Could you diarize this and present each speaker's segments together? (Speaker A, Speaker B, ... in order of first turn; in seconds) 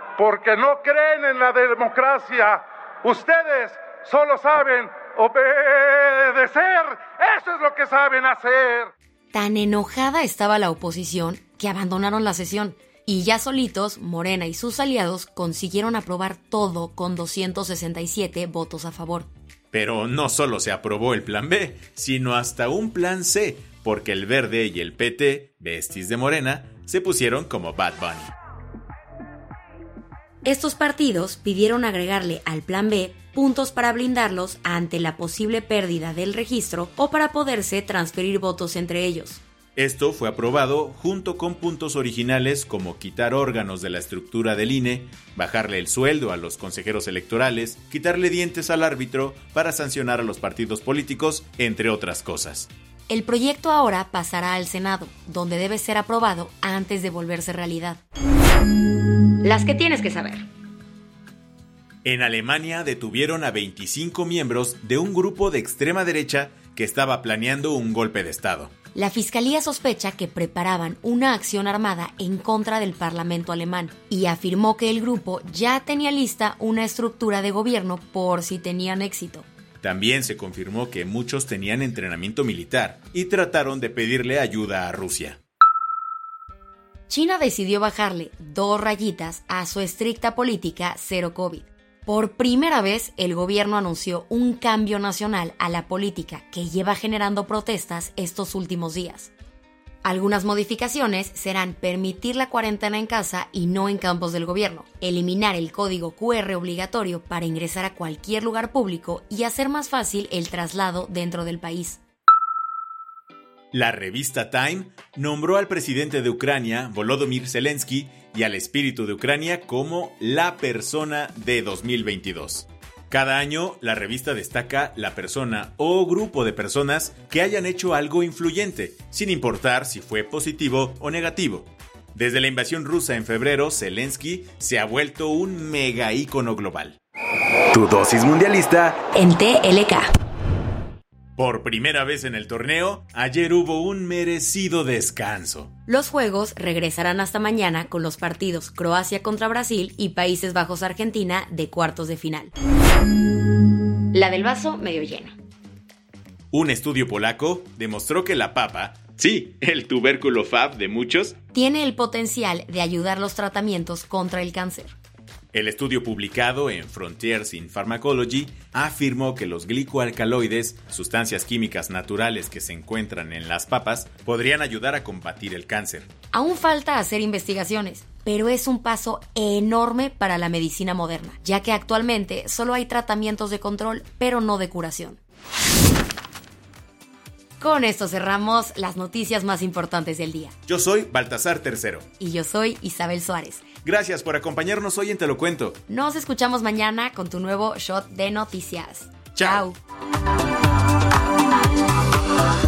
Speaker A: 0.2-8.9
Speaker B: 9.3-19.3, 30.4-39.4, 53.1-58.0, 59.4-60.5, 69.0-79.5, 87.1-99.3, 100.0-112.0, 139.1-140.1, 145.9-152.5, 154.1-155.4, 161.5-165.0, 176.3-185.2, 187.6-190.5, 192.2-193.7, 195.9-199.8
Speaker C: 19.7-28.3, 39.8-52.7, 62.0-68.7, 79.8-85.4, 113.7-137.0, 137.7-139.0, 141.4-145.7, 156.5-161.4, 165.5-176.1, 190.7-192.1, 193.8-195.8, 199.4-199.6